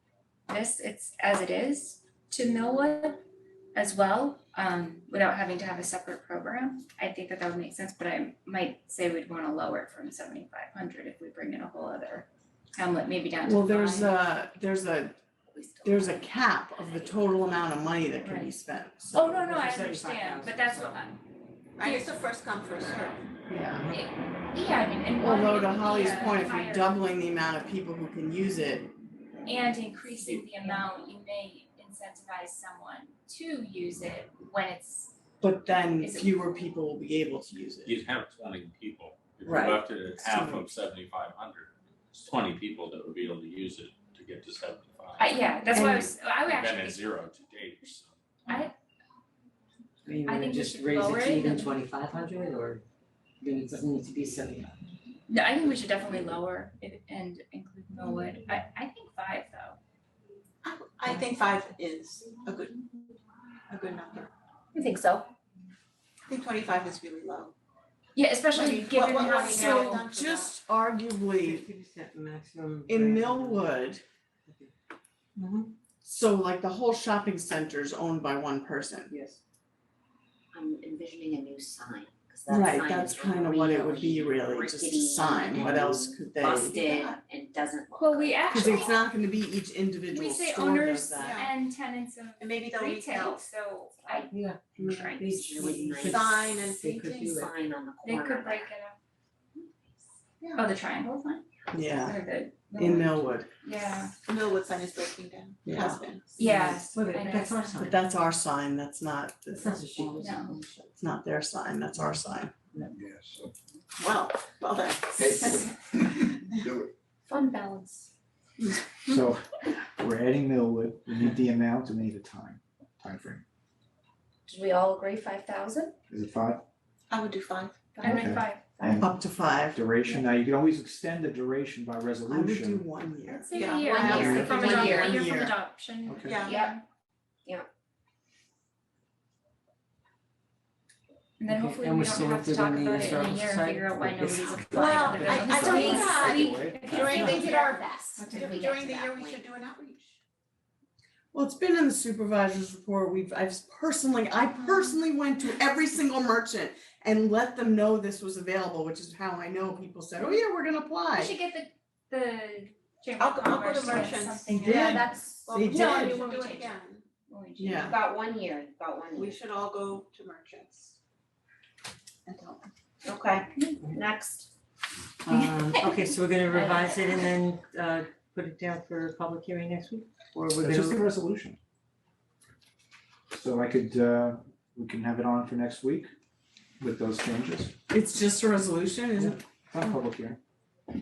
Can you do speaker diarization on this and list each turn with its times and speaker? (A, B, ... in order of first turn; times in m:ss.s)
0:00.5-0:03.2 A
0:03.7-0:14.2 A
0:13.4-0:15.2 B
0:15.6-0:16.0 C
0:15.8-0:19.2 B
0:18.2-0:18.6 A
0:19.1-0:21.2 A
0:19.4-0:20.7 D
0:21.8-0:22.2 A
0:21.8-0:23.2 E
0:23.5-0:23.9 B
0:23.9-0:27.0 A
0:25.2-0:28.9 B
0:29.4-0:35.1 A
0:35.4-0:38.0 B
0:36.0-0:36.4 A
0:37.8-0:48.2 F
0:39.4-0:40.7 B
0:45.2-0:47.1 A
0:45.7-0:46.1 B
0:48.5-0:48.7 A
0:50.0-0:52.8 D
0:50.2-0:51.7 A
0:53.4-0:54.7 D
0:55.3-0:59.8 A
1:00.6-1:03.1 E
1:03.7-1:04.3 E
1:04.9-1:05.2 C
1:06.3-1:07.5 E
1:08.1-1:10.0 A
1:08.5-1:10.5 E
1:09.4-1:11.6 B
1:11.4-1:13.7 D
1:12.9-1:14.0 B
1:14.4-1:14.7 D
1:15.4-1:15.7 D
1:16.0-1:19.1 B
1:19.1-1:19.4 D
1:20.5-1:28.8 C
1:22.5-1:27.1 B
1:26.8-1:27.2 E
1:28.0-1:29.1 A
1:28.5-1:31.4 B
1:30.1-1:35.2 A
1:31.2-1:31.5 E
1:32.4-1:33.5 E
1:34.3-1:37.5 D
1:34.9-1:36.6 C
1:36.0-1:37.4 E
1:37.1-1:38.7 C
1:38.0-1:39.0 A
1:40.4-1:40.7 E
1:40.6-1:41.4 A
1:41.7-1:42.2 B
1:42.0-1:44.1 A
1:42.7-1:43.5 B
1:44.2-1:46.4 E
1:45.6-1:46.0 B
1:46.4-1:47.8 A
1:46.7-1:48.0 D
1:47.7-1:50.2 B
1:49.5-1:50.3 D
1:49.9-1:50.9 C
1:50.2-1:50.6 A
1:51.0-1:52.5 B
1:54.0-1:55.7 E
1:59.0-2:03.4 G
2:04.5-2:05.7 A
2:06.1-2:06.6 G
2:07.1-2:08.2 E
2:08.0-2:09.0 A
2:08.0-2:09.2 G
2:09.0-2:09.8 B
2:09.7-2:12.9 G
2:12.3-2:15.5 B
2:13.3-2:16.8 A
2:13.5-2:15.1 E
2:13.8-2:15.3 C
2:16.0-2:16.4 G
2:16.2-2:16.6 E
2:16.5-2:16.7 C
2:21.4-2:27.5 A
2:21.5-2:25.5 D
2:24.6-2:30.2 E
2:25.2-2:27.4 G
2:25.5-2:26.3 C
2:26.9-2:29.4 C
2:31.3-2:41.3 B
2:41.1-2:48.1 A
2:43.2-2:47.0 E
2:44.6-2:46.2 B
2:47.6-2:48.0 B
2:47.8-2:49.4 C
2:49.1-2:51.0 E
2:52.2-2:52.7 E
2:53.0-2:54.5 C
2:55.3-3:01.1 D
2:56.5-2:57.2 A
3:00.6-3:01.6 G
3:03.3-3:06.1 G
3:06.8-3:07.7 G
3:07.9-3:09.4 B
3:09.2-3:10.4 G